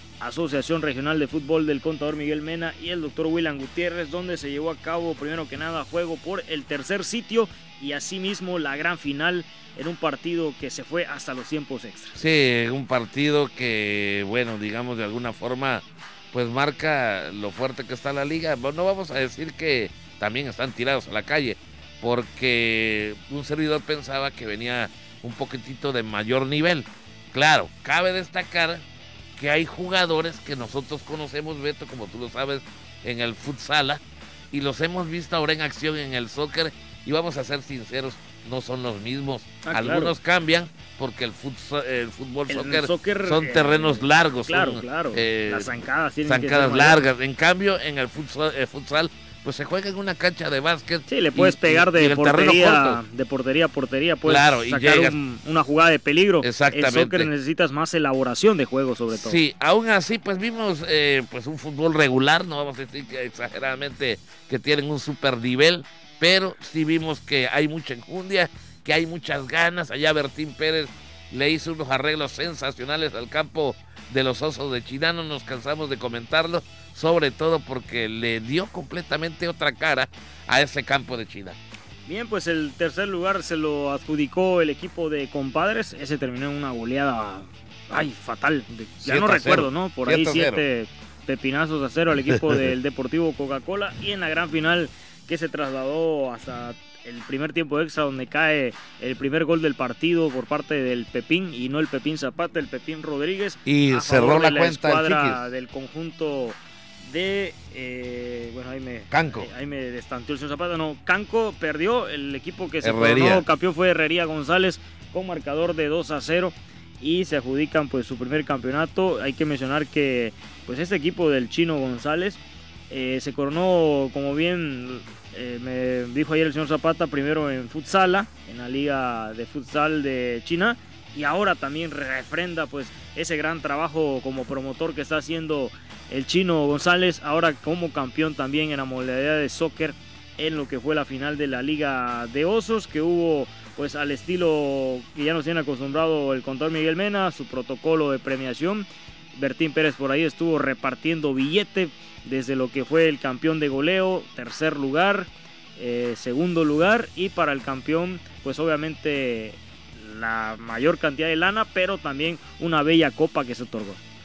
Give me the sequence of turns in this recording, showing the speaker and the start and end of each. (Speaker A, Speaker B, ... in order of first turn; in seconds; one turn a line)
Speaker A: 0.2-12.2
Speaker B: 12.1-28.8
Speaker B: 29.4-34.0
Speaker B: 34.5-53.0
Speaker A: 39.6-40.1
Speaker A: 42.5-47.0
Speaker A: 51.1-59.4
Speaker B: 54.2-55.1
Speaker B: 56.4-57.3
Speaker B: 59.1-81.6
Speaker A: 82.1-122.4
Speaker B: 89.0-90.6
Speaker B: 92.2-92.7
Speaker B: 103.6-105.5
Speaker B: 109.1-109.5
Speaker B: 112.8-113.4
Speaker A: 122.9-164.0